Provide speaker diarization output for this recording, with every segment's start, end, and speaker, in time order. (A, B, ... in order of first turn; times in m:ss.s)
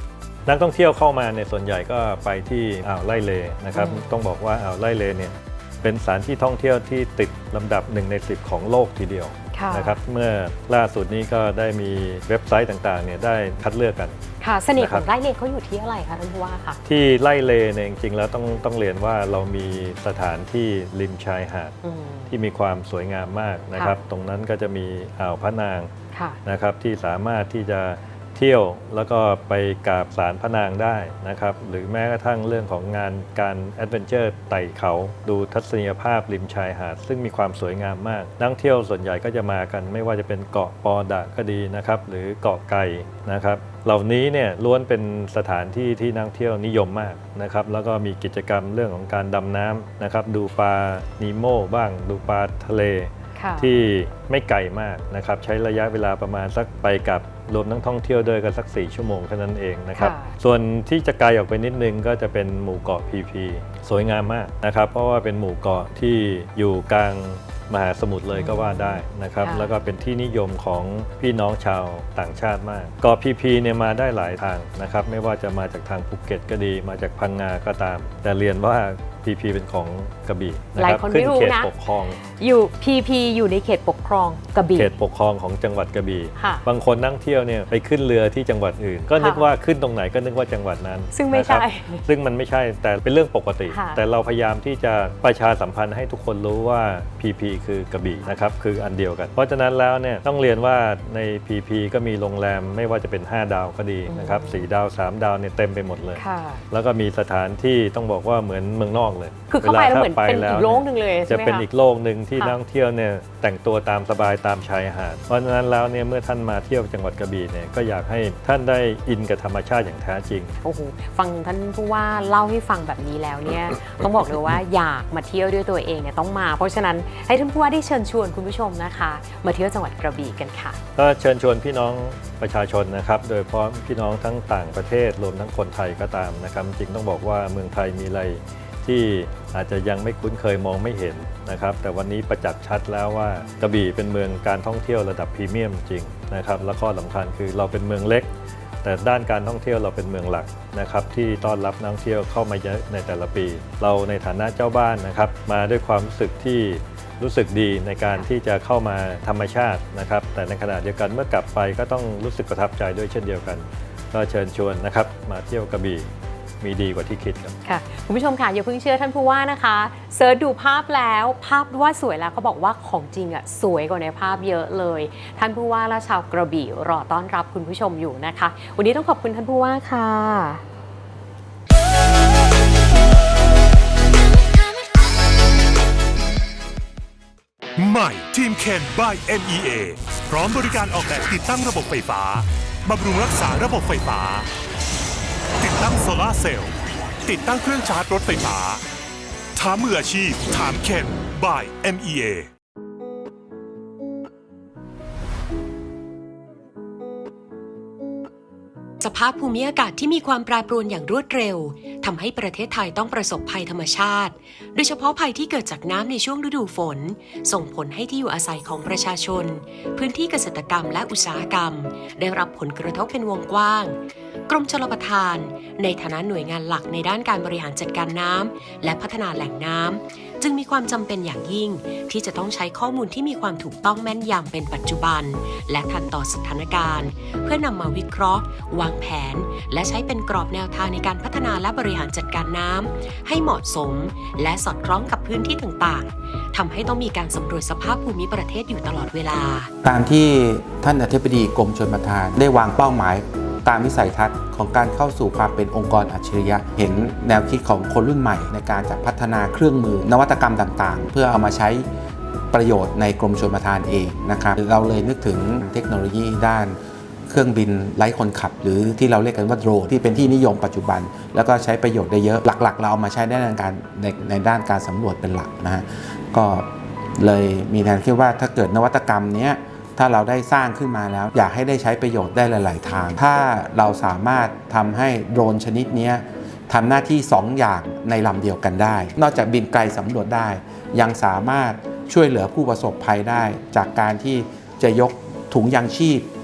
0:00.5-0:14.2 A
0:03.7-0:04.1 B
0:09.5-0:10.0 B
0:14.4-0:16.8 B
0:14.8-0:15.1 A
0:16.8-0:21.8 A
0:21.8-0:22.3 B
0:22.3-0:25.9 A
0:26.1-0:26.4 B
0:26.4-1:22.2 A
0:53.4-0:53.7 B
1:00.0-1:00.3 B
1:08.3-1:09.7 B
1:20.8-1:21.7 B
1:22.4-1:24.9 B
1:24.8-2:00.6 A
1:26.4-1:26.6 B
1:29.2-1:29.5 B
1:31.1-1:32.0 B
1:33.7-1:34.0 B
1:44.1-1:44.7 B
1:46.2-1:46.6 B
1:49.5-1:51.7 B
2:00.6-2:10.8 B
2:11.0-2:46.1 A
2:46.6-2:47.6 A
2:47.6-3:00.6 B
3:07.8-3:14.5 C
3:15.6-3:18.8 C
3:19.6-3:22.5 C
3:29.0-4:09.7 D
4:09.8-4:21.9 E
4:22.5-4:56.3 E